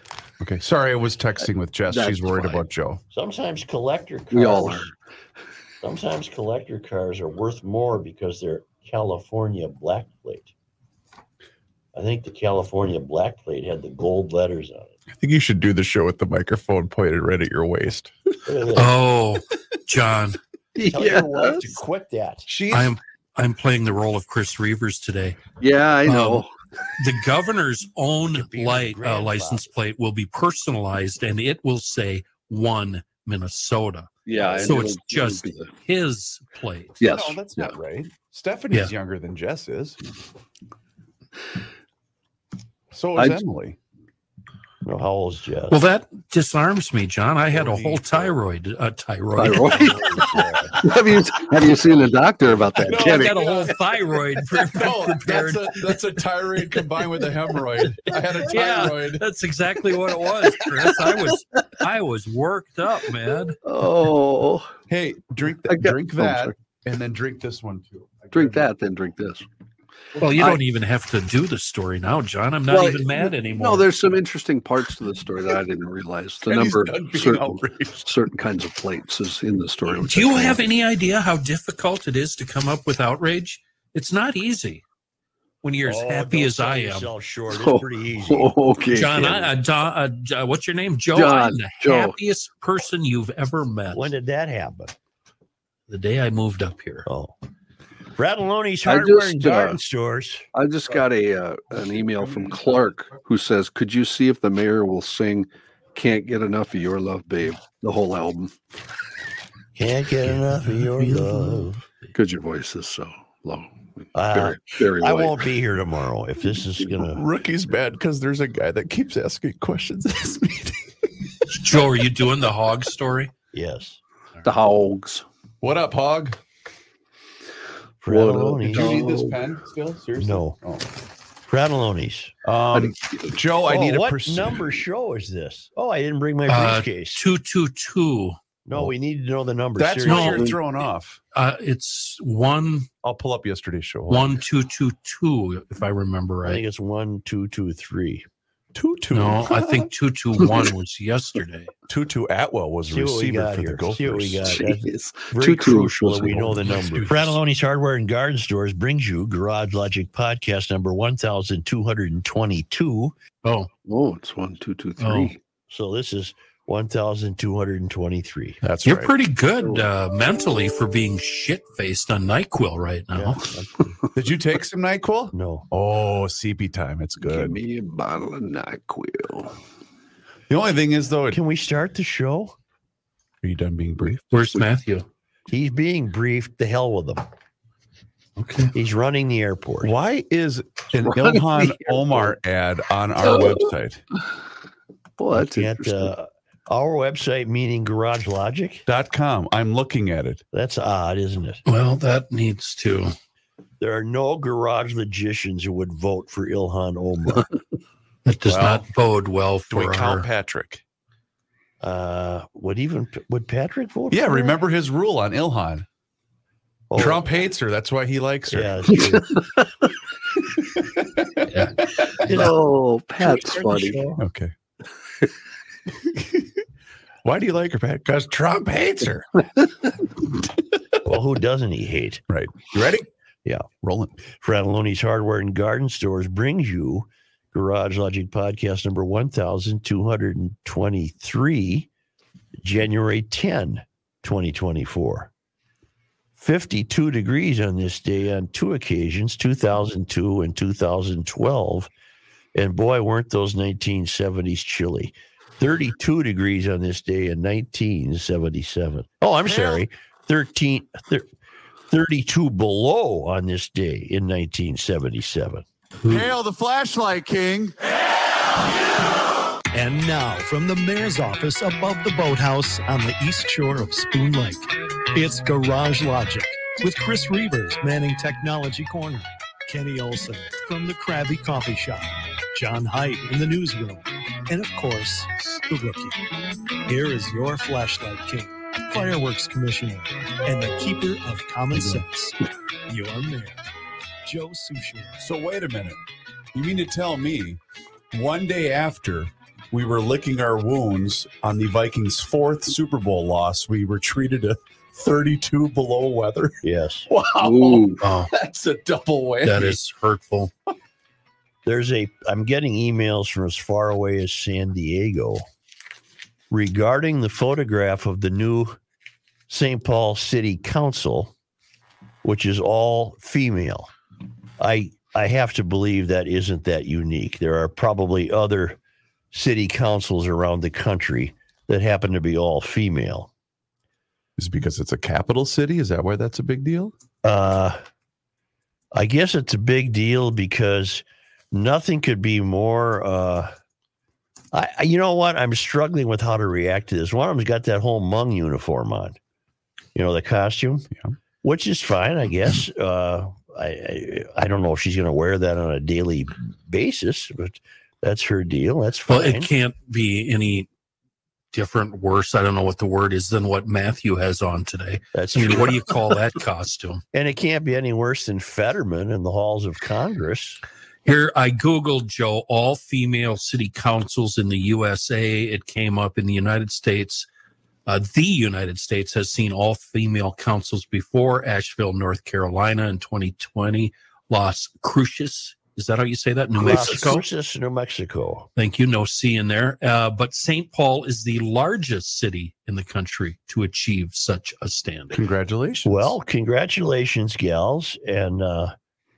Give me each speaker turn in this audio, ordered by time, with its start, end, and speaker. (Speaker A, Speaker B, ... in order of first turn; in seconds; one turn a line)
Speaker A: 0.4-3.0
Speaker B: 1.9-2.6
Speaker C: 3.1-4.9
Speaker B: 4.3-4.9
Speaker C: 5.8-10.5
Speaker C: 11.9-15.0
Speaker A: 15.1-18.1
Speaker C: 18.5-18.9
Speaker D: 18.8-20.4
Speaker B: 20.8-21.8
Speaker C: 20.9-22.5
Speaker A: 22.5-22.9
Speaker D: 22.7-25.4
Speaker B: 25.6-26.5
Speaker D: 26.1-26.4
Speaker D: 27.0-37.0
Speaker C: 28.3-29.8
Speaker B: 34.2-35.7
Speaker B: 37.0-37.7
Speaker A: 37.1-40.0
Speaker A: 42.9-43.8
Speaker C: 44.8-45.8
Speaker D: 45.7-50.0
Speaker A: 47.5-48.4
Speaker B: 49.4-53.6
Speaker C: 49.7-50.9
Speaker A: 52.8-53.8
Speaker D: 52.9-55.9
Speaker A: 54.7-59.2
Speaker D: 58.5-63.6
Speaker B: 60.8-61.3
Speaker B: 63.6-64.7
Speaker A: 64.9-68.7
Speaker B: 65.7-66.5
Speaker B: 68.3-69.5
Speaker D: 70.2-73.9
Speaker A: 70.2-70.5
Speaker B: 72.7-80.7
Speaker A: 76.5-78.1
Speaker D: 79.9-84.8
Speaker D: 85.6-87.1
Speaker C: 85.8-88.5
Speaker B: 87.5-89.5
Speaker D: 88.9-94.1
Speaker B: 91.1-92.2
Speaker C: 93.9-95.0
Speaker D: 95.9-97.1
Speaker C: 97.1-97.4
Speaker C: 98.2-100.5
Speaker B: 98.9-99.8
Speaker B: 100.5-108.5
Speaker A: 101.8-103.2
Speaker C: 109.8-111.8
Speaker D: 110.3-111.7
Speaker B: 112.1-115.5
Speaker C: 114.2-117.2
Speaker A: 117.0-120.8
Speaker D: 121.5-123.3
Speaker C: 123.5-124.0
Speaker B: 124.4-125.2
Speaker A: 125.6-126.4
Speaker C: 128.0-129.1
Speaker B: 128.1-129.4
Speaker A: 128.7-130.9
Speaker C: 130.2-130.6
Speaker C: 131.5-132.3
Speaker A: 132.4-134.7
Speaker B: 132.7-133.3
Speaker C: 133.7-137.2
Speaker D: 136.5-138.4
Speaker C: 138.7-140.5
Speaker A: 139.8-141.2
Speaker D: 140.1-140.6
Speaker D: 141.3-142.9
Speaker A: 143.0-144.4
Speaker D: 144.1-146.6
Speaker C: 146.4-148.3
Speaker A: 148.8-149.9
Speaker D: 149.1-151.7
Speaker A: 151.9-154.4
Speaker C: 152.9-163.2
Speaker B: 154.5-156.6
Speaker A: 156.6-157.3
Speaker D: 156.7-157.2
Speaker D: 163.4-163.7
Speaker B: 163.8-165.4
Speaker D: 165.0-165.3
Speaker C: 165.7-168.6
Speaker A: 168.6-169.2
Speaker D: 168.8-173.4
Speaker B: 169.6-169.9
Speaker C: 173.1-173.9
Speaker A: 174.1-177.6
Speaker C: 175.3-175.7
Speaker B: 177.2-179.6
Speaker A: 180.5-181.4
Speaker C: 181.3-182.6
Speaker A: 183.4-184.2
Speaker D: 184.3-185.1
Speaker C: 185.5-187.3
Speaker D: 188.4-188.7
Speaker C: 188.7-189.9
Speaker A: 189.8-194.0
Speaker B: 191.0-192.4
Speaker B: 193.2-193.7
Speaker B: 195.2-196.1
Speaker C: 195.4-198.9
Speaker A: 198.9-200.4
Speaker C: 200.5-201.6
Speaker D: 201.7-203.1
Speaker C: 203.8-207.5
Speaker D: 208.2-210.3
Speaker A: 208.5-208.9
Speaker A: 209.7-210.8
Speaker C: 211.8-214.6
Speaker A: 214.1-215.9
Speaker C: 216.9-217.2
Speaker A: 217.0-219.1
Speaker C: 218.5-219.4
Speaker A: 220.7-222.5
Speaker D: 221.5-222.5
Speaker B: 222.2-224.0
Speaker C: 222.2-222.6
Speaker C: 223.2-224.2
Speaker A: 224.2-224.5
Speaker A: 226.0-226.4
Speaker A: 227.2-229.3
Speaker C: 231.0-232.2
Speaker A: 232.3-233.1
Speaker A: 233.8-234.2
Speaker C: 234.3-241.9
Speaker C: 242.6-245.3
Speaker C: 246.4-251.9
Speaker C: 252.6-261.3
Speaker A: 259.5-259.8
Speaker C: 261.9-265.6
Speaker D: 266.0-266.3
Speaker A: 266.1-267.8
Speaker E: 269.7-286.2
Speaker E: 286.9-293.7
Speaker A: 291.7-292.1
Speaker E: 294.2-295.2
Speaker A: 295.2-296.0
Speaker A: 296.5-297.6
Speaker A: 298.1-309.8
Speaker C: 306.6-307.1
Speaker B: 307.4-308.0
Speaker D: 308.0-308.3
Speaker D: 309.4-310.5
Speaker C: 311.6-315.4
Speaker C: 316.5-318.8
Speaker C: 319.5-321.3
Speaker C: 322.2-323.9
Speaker C: 324.6-328.8
Speaker C: 329.3-333.3
Speaker A: 334.4-336.9
Speaker C: 337.2-337.8
Speaker C: 338.9-343.5
Speaker C: 344.5-349.2
Speaker C: 349.9-350.9
Speaker C: 351.4-359.5
Speaker D: 359.1-360.7
Speaker D: 361.5-367.0
Speaker C: 365.1-365.8
Speaker C: 367.1-370.6
Speaker D: 371.1-377.3
Speaker D: 377.9-387.2
Speaker C: 386.6-388.5
Speaker D: 388.6-395.2
Speaker A: 395.1-396.1
Speaker C: 395.8-398.7